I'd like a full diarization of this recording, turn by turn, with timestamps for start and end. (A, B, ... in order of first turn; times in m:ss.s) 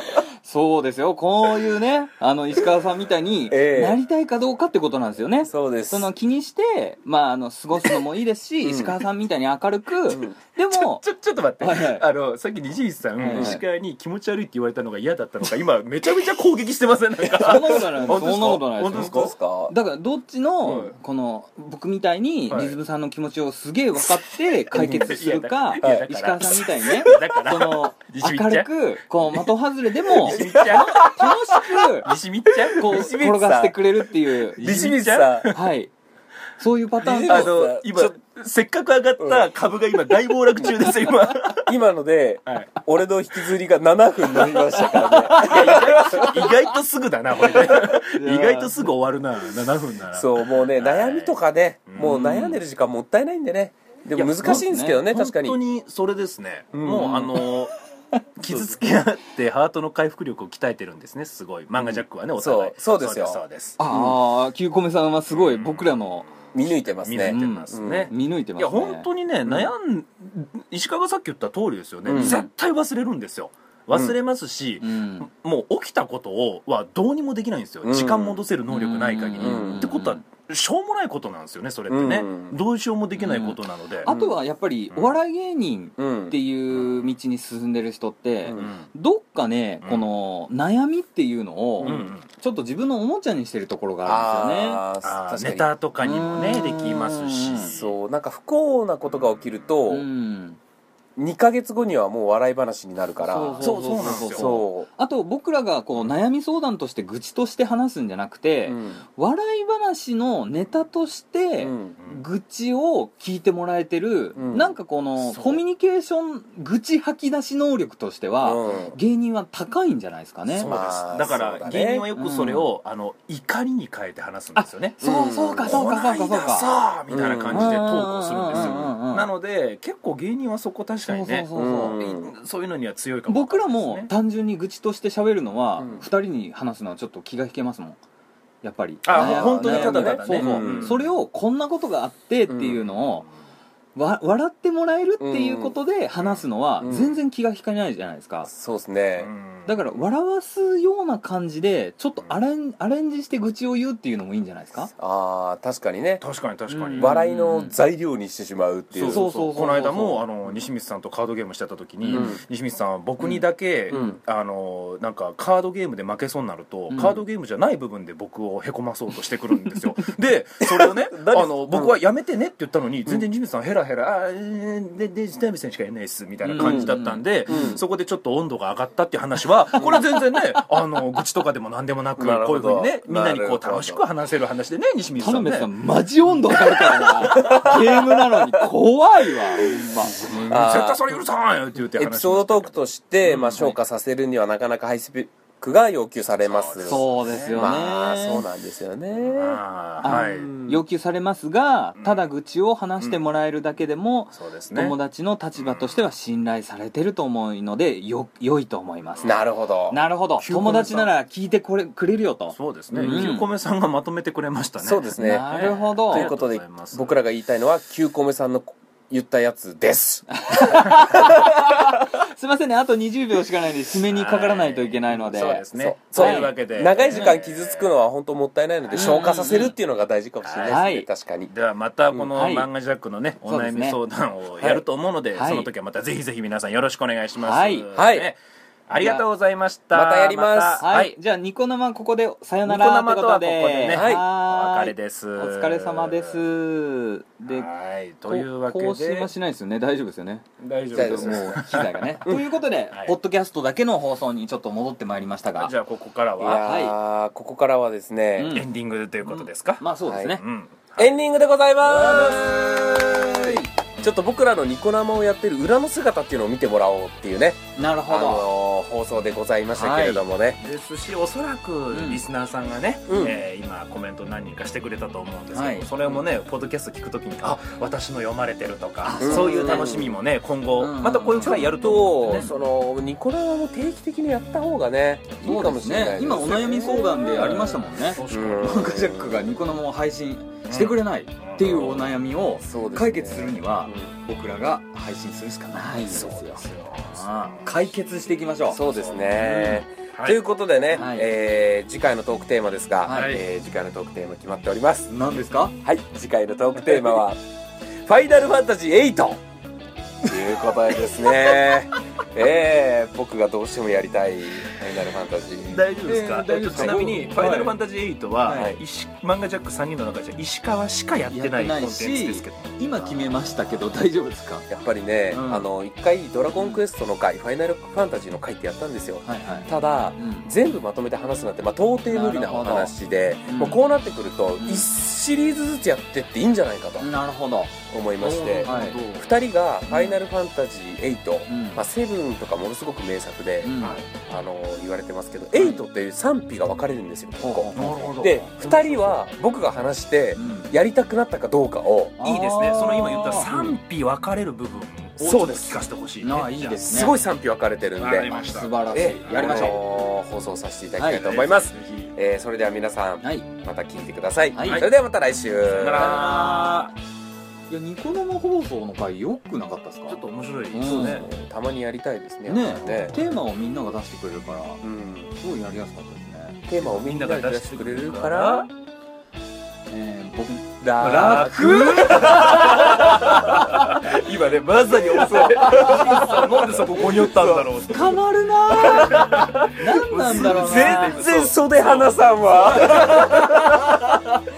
0:00.1-0:11.0 A
0:03.5-0:04.0 B
0:05.5-0:06.1 B
0:08.6-0:09.0 B
0:10.1-0:10.4 B
0:10.7-0:19.3 C
0:11.6-0:12.1 A
0:13.2-0:13.6 A
0:13.2-0:13.6 B
0:17.2-0:18.2 B
0:17.4-0:32.1 A
0:18.9-0:19.8 B
0:20.6-0:20.9 C
0:22.5-0:22.8 C
0:24.7-0:28.7 C
0:24.8-0:25.1 B
0:25.8-0:26.1 B
0:30.2-0:33.0 C
0:30.2-0:31.3 B
0:32.5-0:33.9 B
0:32.8-0:35.9 A
0:34.6-0:35.5 B
0:34.6-0:35.6 C
0:36.6-0:37.6 A
0:37.0-0:38.2 B
0:37.3-0:41.7 C
0:39.2-0:39.5 B
0:40.6-0:46.5 B
0:44.7-0:46.6 A
0:45.4-0:52.3 C
0:47.4-0:48.8 A
0:50.1-0:55.6 B
0:52.0-0:52.6 A
0:54.1-0:55.0 A
0:54.4-0:57.8 C
0:56.7-0:57.3 B
0:56.9-0:57.5 A
0:58.2-0:58.9 A
0:58.4-1:03.8 C
1:01.8-1:04.2 B
1:03.8-1:06.3 A
1:05.3-1:24.1 C
1:06.5-1:08.1 B
1:07.2-1:09.1 A
1:12.0-1:12.4 B
1:12.2-1:12.5 A
1:14.8-1:15.3 A
1:17.8-1:18.4 B
1:18.7-1:20.2 A
1:19.4-1:20.0 B
1:21.9-1:22.6 B
1:23.2-1:34.8 A
1:24.1-1:24.4 B
1:26.0-1:26.4 B
1:26.7-1:27.1 C
1:28.4-1:28.7 B
1:28.5-1:28.9 C
1:31.8-1:32.1 B
1:31.8-1:32.2 C
1:34.0-1:35.7 B
1:35.0-1:38.0 C
1:36.0-1:37.7 A
1:37.7-1:40.1 B
1:39.9-1:40.6 A
1:41.2-1:44.9 B
1:43.2-2:00.7 A
1:43.6-1:44.5 C
1:48.7-1:49.0 B
1:51.6-1:51.9 B
1:54.4-1:55.6 B
1:58.4-1:59.0 B
2:00.5-2:05.0 C
2:00.7-2:02.0 B
2:02.2-2:02.7 A
2:04.6-2:06.7 A
2:05.0-2:05.9 B
2:05.7-2:14.1 C
2:07.1-2:07.8 B
2:07.5-2:09.3 A
2:08.5-2:08.9 B
2:11.0-2:12.0 A
2:11.5-2:12.3 B
2:13.3-2:18.0 A
2:15.8-2:16.1 B
2:18.6-2:23.3 A
2:19.0-2:21.1 C
2:19.1-2:21.0 B
2:22.5-2:22.8 B
2:24.0-2:28.5 A
2:25.2-2:25.8 B
2:26.8-2:27.2 B
2:28.5-2:29.3 B
2:29.2-2:29.8 C
2:29.7-2:34.9 A
2:35.0-2:36.2 B
2:36.2-2:37.2 C
2:36.7-2:37.8 A
2:37.0-2:39.2 B
2:38.9-3:05.7 C
2:39.0-2:40.3 A
2:42.1-2:42.4 A
2:42.1-2:42.4 B
2:43.9-2:44.2 B
2:46.9-2:47.2 A
2:50.6-2:52.0 B
2:56.4-2:57.8 A
2:56.6-2:56.9 B
2:57.5-2:57.8 B
3:02.2-3:04.0 B
3:05.2-3:10.5 A
3:06.6-3:08.7 B
3:09.8-3:11.2 B
3:10.2-3:13.7 C
3:12.0-3:20.8 B
3:16.4-3:17.6 C
3:16.8-3:18.4 A
3:19.2-3:20.5 C
3:20.0-3:29.4 A
3:22.0-3:22.2 C
3:24.3-3:25.0 C
3:25.6-3:26.0 C
3:29.2-3:30.0 B
3:29.9-3:33.5 A
3:30.4-3:31.1 C
3:32.5-3:37.2 C
3:32.9-3:33.4 B
3:34.8-3:42.0 B
3:35.2-3:36.3 A
3:40.3-3:47.3 A
3:44.1-3:48.0 C
3:45.3-3:51.5 B
3:49.0-3:49.8 A
3:50.4-3:50.8 C
3:50.7-3:51.1 A
3:51.5-3:58.4 C
3:52.3-3:52.7 A
3:53.4-3:54.0 A
3:55.4-3:55.7 A
3:57.4-3:57.9 A
3:57.9-3:58.3 B
3:58.9-4:01.1 C
3:59.0-3:59.2 A
3:59.9-4:00.9 B
4:00.8-4:07.7 A
4:02.7-4:06.4 C
4:03.9-4:04.3 B
4:07.5-4:09.3 C
4:08.3-4:15.7 A
4:10.6-4:12.2 C
4:10.9-4:11.5 B
4:15.6-4:16.8 C
4:16.4-4:18.6 B
4:16.6-4:17.0 A
4:18.4-4:18.7 A
4:18.5-4:19.8 C
4:19.2-4:20.4 A
4:20.0-4:20.4 B
4:20.4-4:21.2 C
4:21.0-4:30.6 B
4:21.8-4:23.7 A
4:27.8-4:28.5 A
4:29.7-4:30.2 A
4:30.6-4:42.5 C
4:31.9-4:32.2 A
4:33.1-4:33.4 B
4:35.5-4:35.9 A
4:39.0-4:40.1 A
4:39.2-4:40.1 B
4:40.8-4:41.7 A
4:41.4-4:49.6 B
4:42.2-4:42.6 A
4:45.4-4:58.8 A
4:48.2-4:49.0 C
4:50.7-4:51.9 C
4:51.6-4:54.1 B
4:56.1-4:56.7 B
4:56.2-4:57.7 C
4:58.7-5:05.1 B
4:58.9-5:00.4 C
4:59.4-4:59.8 A
5:00.9-5:01.3 A
5:03.1-5:03.4 A
5:03.1-5:03.4 C
5:05.1-5:05.8 A
5:05.8-5:07.4 B
5:08.0-5:09.4 B
5:10.2-5:15.9 B
5:10.3-5:11.6 A
5:15.7-5:22.7 C
5:16.0-5:17.8 A
5:16.7-5:17.2 B
5:18.4-5:18.7 A
5:18.5-5:18.8 B
5:21.3-5:24.7 A
5:24.7-5:37.1 B
5:25.3-5:25.7 A
5:29.2-5:30.5 A
5:32.1-5:32.9 A
5:33.5-5:33.8 A
5:34.6-5:34.9 A
5:37.0-5:37.8 A
5:37.9-5:52.2 B
5:38.2-5:39.3 C
5:38.6-5:39.0 A
5:39.9-5:40.2 A
5:41.5-5:41.8 A
5:43.6-5:44.0 A
5:43.8-5:44.1 C
5:45.6-5:45.8 A
5:47.4-5:48.5 A
5:47.8-5:49.2 C
5:50.4-5:50.7 A
5:52.2-5:53.5 A
5:52.2-5:57.0 C
5:53.5-5:53.8 B
5:55.2-5:55.9 B
5:56.2-5:57.2 A
5:56.8-5:58.4 B
5:58.0-5:59.8 C
5:58.3-5:59.8 A
5:58.9-6:06.4 B
6:01.0-6:01.4 A
6:01.1-6:02.1 C
6:03.2-6:03.5 A
6:04.5-6:04.9 A
6:05.7-6:06.9 C
6:05.9-6:06.9 A
6:07.7-6:11.3 A
6:10.1-6:11.3 C
6:10.8-6:13.2 B
6:12.5-6:14.8 A
6:14.8-6:15.4 B
6:15.4-6:16.6 A
6:16.7-6:18.7 B
6:16.9-6:18.7 C
6:19.9-6:24.0 A
6:20.8-6:27.7 B
6:21.0-6:28.3 C
6:25.5-6:26.6 A
6:27.8-6:31.3 A
6:28.7-6:29.7 B
6:28.8-6:34.2 C
6:30.2-6:34.2 B
6:32.8-6:33.3 A